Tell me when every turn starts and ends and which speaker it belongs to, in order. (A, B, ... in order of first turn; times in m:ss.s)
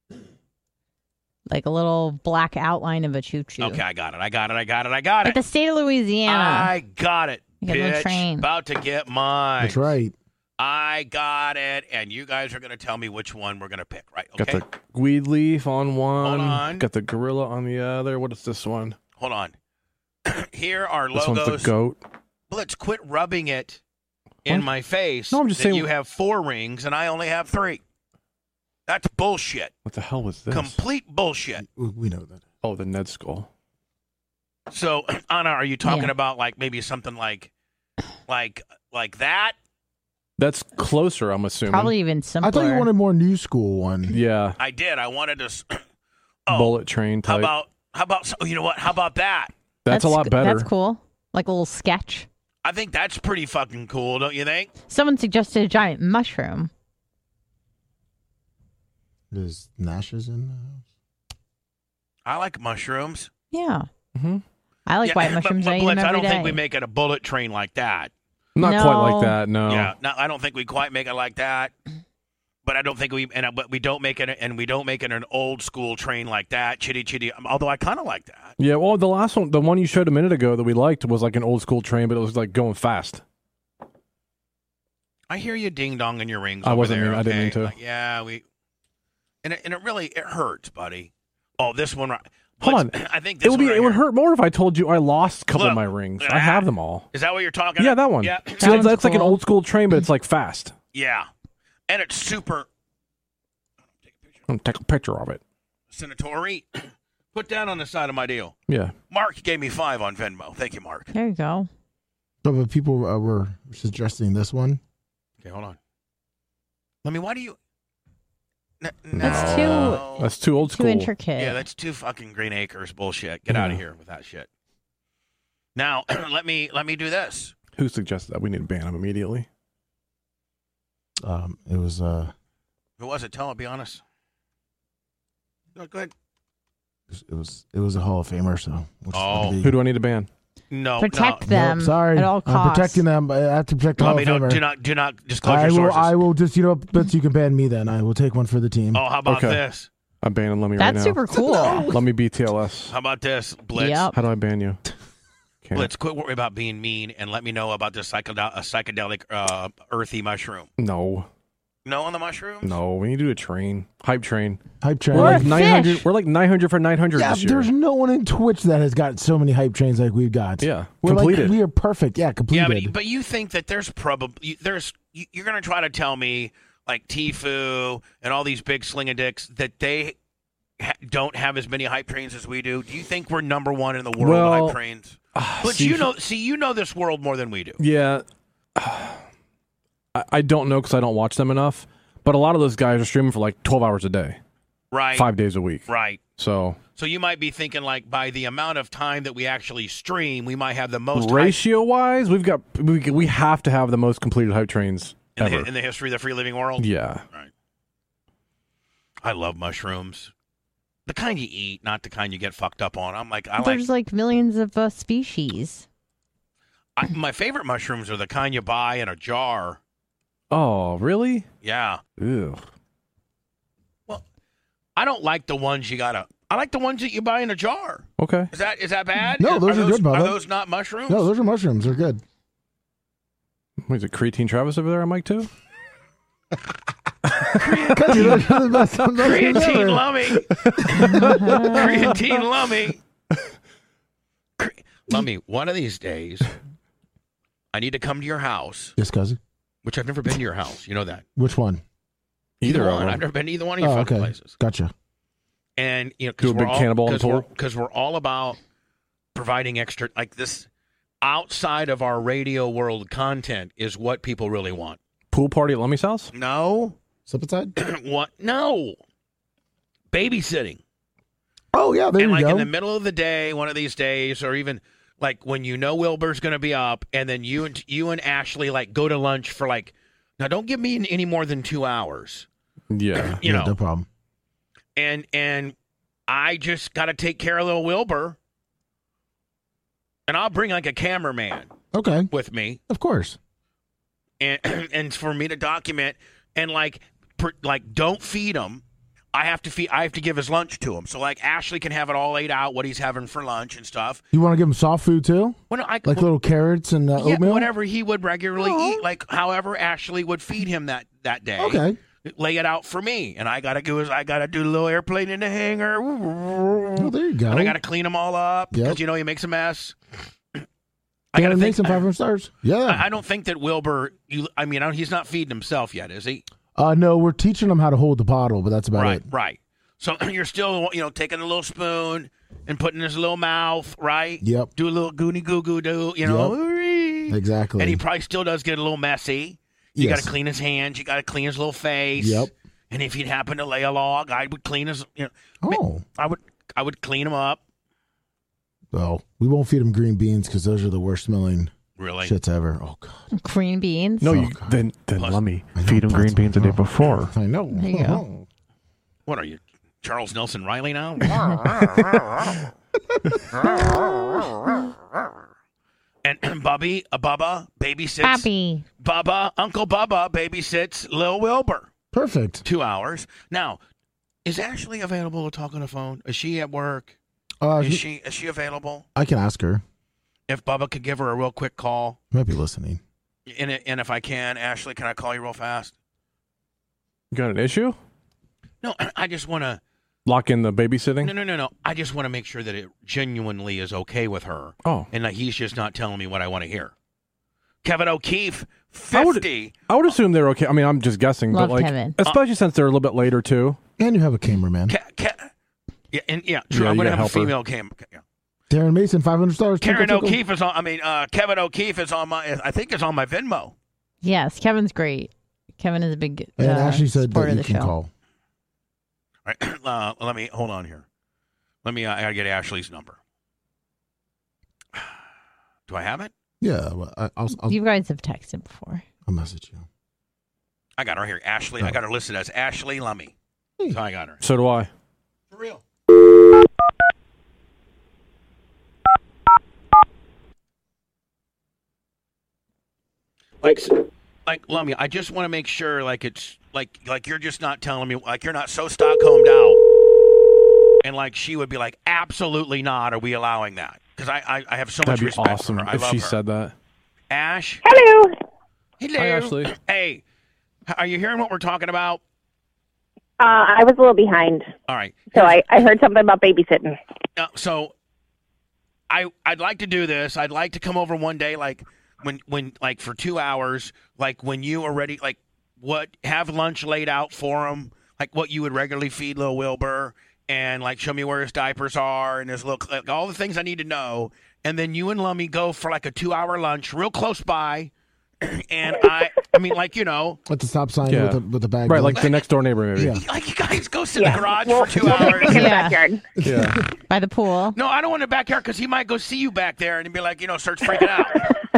0:01.5-0:03.8 A
0:03.6-0:05.4 B
0:05.2-0:06.7 A
0:06.3-0:09.9 B
0:07.6-0:08.5 A
0:09.6-0:10.2 C
0:10.6-0:14.6 B
0:14.4-0:19.0 D
0:16.2-0:16.9 B
0:19.2-0:19.5 B
0:20.2-0:21.7 B
0:21.2-0:22.0 D
0:22.5-0:23.8 B
0:24.4-0:27.8 B
0:25.3-0:25.9 D
0:28.9-0:29.7 B
0:29.8-0:30.8 D
0:30.5-0:31.6 B
0:31.6-0:32.4 C
0:32.6-0:33.5 D
0:34.7-0:37.5 B
0:35.8-0:36.1 A
0:38.3-0:39.6 B
0:40.4-0:41.9 D
0:41.7-0:42.9 A
0:42.4-0:44.2 C
0:44.1-0:44.6 D
0:44.6-0:45.8 B
0:46.5-0:49.5 B
0:46.5-0:47.5 D
0:49.8-0:50.7 D
0:49.9-0:52.3 A
0:52.6-0:54.7 B
0:54.9-0:56.7 A
0:59.3-1:00.8 C
1:02.2-1:03.3 B
1:03.5-1:03.9 A
1:04.2-1:04.4 D
1:04.9-1:06.6 A
1:05.0-1:08.1 B
1:08.6-1:09.9 D
1:08.6-1:09.4 A
1:09.7-1:11.7 B
1:12.6-1:18.6 B
1:18.6-1:23.2 D
1:25.3-1:28.4 B
1:26.6-1:27.8 D
1:29.4-1:34.0 B
1:32.6-1:37.1 D
1:35.5-1:38.9 B
1:37.8-1:40.7 D
1:38.6-1:39.4 A
1:40.9-1:41.3 B
1:41.9-1:42.7 B
1:44.1-1:44.4 B
1:44.5-1:45.4 D
1:45.9-1:48.6 B
1:48.7-1:48.9 D
1:49.1-1:51.1 B
1:51.1-1:51.7 A
1:52.4-1:54.8 C
1:55.4-1:55.8 B
1:57.0-1:57.6 B
1:58.8-2:00.3 B
1:59.2-2:01.1 D
1:59.2-2:01.6 A
2:01.4-2:04.5 B
2:03.5-2:03.8 D
2:05.8-2:07.5 B
2:07.8-2:09.5 D
2:11.2-2:12.3 C
2:13.0-2:14.0 B
2:15.8-2:16.1 B
2:17.1-2:19.8 C
2:19.1-2:19.6 B
2:19.6-2:20.3 D
2:20.7-2:21.4 B
2:21.0-2:23.0 A
2:21.4-2:24.6 C
2:24.0-2:26.2 B
2:25.4-2:29.0 C
2:28.9-2:29.9 B
2:29.3-2:29.6 D
2:30.2-2:31.2 D
2:30.8-2:32.0 A
2:31.4-2:31.9 C
2:31.8-2:32.9 D
2:32.9-2:34.1 B
2:33.8-2:34.2 A
2:34.1-2:34.8 D
2:35.6-2:35.9 D
2:35.8-2:40.7 B
2:40.8-2:41.3 D
2:41.8-2:42.8 B
2:42.6-2:47.7 D
2:44.8-2:45.7 C
2:45.2-2:46.0 A
2:47.1-2:52.9 C
2:50.6-2:51.6 D
2:52.5-3:00.2 B
3:00.8-3:07.8 B
3:04.2-3:04.8 D
3:05.4-3:06.1 D
3:07.8-3:08.2 D
3:08.8-3:09.2 D
3:10.2-3:14.4 D
3:14.9-3:15.3 B
3:15.2-3:16.8 D
3:15.9-3:16.2 B
3:17.0-3:21.6 B
3:21.2-3:25.7 D
3:25.4-3:27.5 B
3:26.8-3:27.2 D
3:29.2-3:30.3 B
3:31.1-3:33.9 B
3:33.6-3:35.9 A
3:37.0-3:39.8 B
3:40.5-3:41.5 D
3:41.6-3:42.0 B
3:42.2-3:42.6 D
3:45.0-3:51.3 B
3:48.2-3:48.5 D
3:49.4-3:50.4 C
3:51.1-3:52.2 C
3:53.9-3:55.5 D
3:57.3-3:58.6 D
3:57.5-3:58.6 B
3:57.9-4:00.1 C
3:59.2-4:03.0 B
4:00.6-4:02.3 D
4:00.8-4:01.4 C
4:01.2-4:01.7 A
4:04.6-4:06.5 B
4:07.7-4:09.0 B
4:09.0-4:09.4 C
4:09.8-4:11.2 B
4:11.4-4:11.8 C
4:12.6-4:13.2 D
4:12.6-4:14.5 B
4:13.8-4:14.9 C
4:15.8-4:18.6 B
4:16.4-4:17.4 D
4:19.4-4:20.7 B
4:21.2-4:25.0 B
4:25.3-4:26.3 D
4:26.3-4:27.0 B
4:27.3-4:27.7 C
4:27.8-4:29.0 B
4:30.1-4:30.8 B
4:31.7-4:32.7 C
4:32.2-4:42.5 B
4:42.9-4:43.4 D
4:43.3-4:43.8 B
4:43.4-4:44.1 C
4:45.0-4:45.8 B
4:46.3-4:48.4 B
4:50.3-4:51.7 B
4:51.9-4:52.3 C
4:52.3-4:52.8 B
4:52.9-4:53.4 C
4:54.4-5:04.2 B
5:04.3-5:07.7 C
5:05.7-5:06.3 B
5:07.2-5:20.0 B
5:08.6-5:09.0 C
5:11.6-5:12.0 C
5:17.0-5:17.8 C
5:18.7-5:19.0 C
5:21.3-5:22.0 B
5:21.4-5:23.1 C
5:22.8-5:26.4 B
5:26.8-5:29.2 C
5:28.9-5:47.6 B
5:34.4-5:34.7 C
5:36.2-5:36.6 C
5:37.3-5:38.0 C
5:40.0-5:40.3 C
5:42.2-5:42.5 C
5:45.6-5:46.0 C
5:48.9-5:53.3 C
5:52.0-5:52.3 B
5:53.3-5:54.4 A
5:54.2-5:57.3 D
5:54.2-5:54.8 C
5:55.2-5:55.4 B
5:55.8-5:58.4 C
5:57.7-5:58.2 A
5:59.3-6:01.5 B
6:01.6-6:02.6 D
6:06.2-6:08.5 B
6:08.2-6:08.8 A
6:09.0-6:11.9 B
6:12.1-6:12.6 C
6:12.6-6:13.8 B
6:14.4-6:17.2 B
6:17.6-6:18.0 C
6:17.8-6:19.1 B
6:19.2-6:19.8 C
6:20.5-6:22.2 B
6:22.3-6:23.0 C
6:23.5-6:25.9 B
6:27.3-6:28.0 D
6:28.8-6:29.8 B
6:30.3-6:31.3 D
6:31.2-6:36.9 B
6:37.8-6:39.8 B
6:39.1-6:43.8 D
6:41.5-6:42.2 A
6:44.0-6:45.0 C
6:44.9-6:45.5 B
6:46.1-6:48.2 B
6:46.7-6:47.5 D
6:48.7-6:50.4 C
6:49.8-6:53.7 B
6:54.2-6:57.9 A
6:56.6-6:58.1 C
6:59.4-7:01.1 B
7:01.8-7:03.2 B
7:05.9-7:06.3 B
7:06.6-7:07.8 C
7:07.6-7:09.0 A
7:09.3-7:09.9 C
7:11.0-7:13.3 B
7:13.9-7:14.4 B
7:14.4-7:14.9 D
7:15.5-7:15.8 B
7:23.6-7:29.8 B
7:31.0-7:36.4 B
7:35.0-7:36.8 D
7:37.3-7:37.8 B
7:37.8-7:38.3 E
7:39.0-7:40.2 B
7:39.2-7:39.7 D
7:40.9-7:42.2 B
7:43.4-7:44.7 E
7:44.9-7:45.6 B
7:45.3-7:47.0 E
7:47.4-7:47.9 B
7:49.1-8:10.4 B
8:10.5-8:12.3 C
8:11.1-8:13.2 D
8:12.2-8:12.4 B
8:13.0-8:13.2 C
8:13.2-8:15.8 B
8:14.2-8:16.3 E
8:15.5-8:16.0 A
8:16.4-8:16.8 C
8:16.4-8:16.8 D
8:17.1-8:17.8 A
8:17.8-8:21.6 B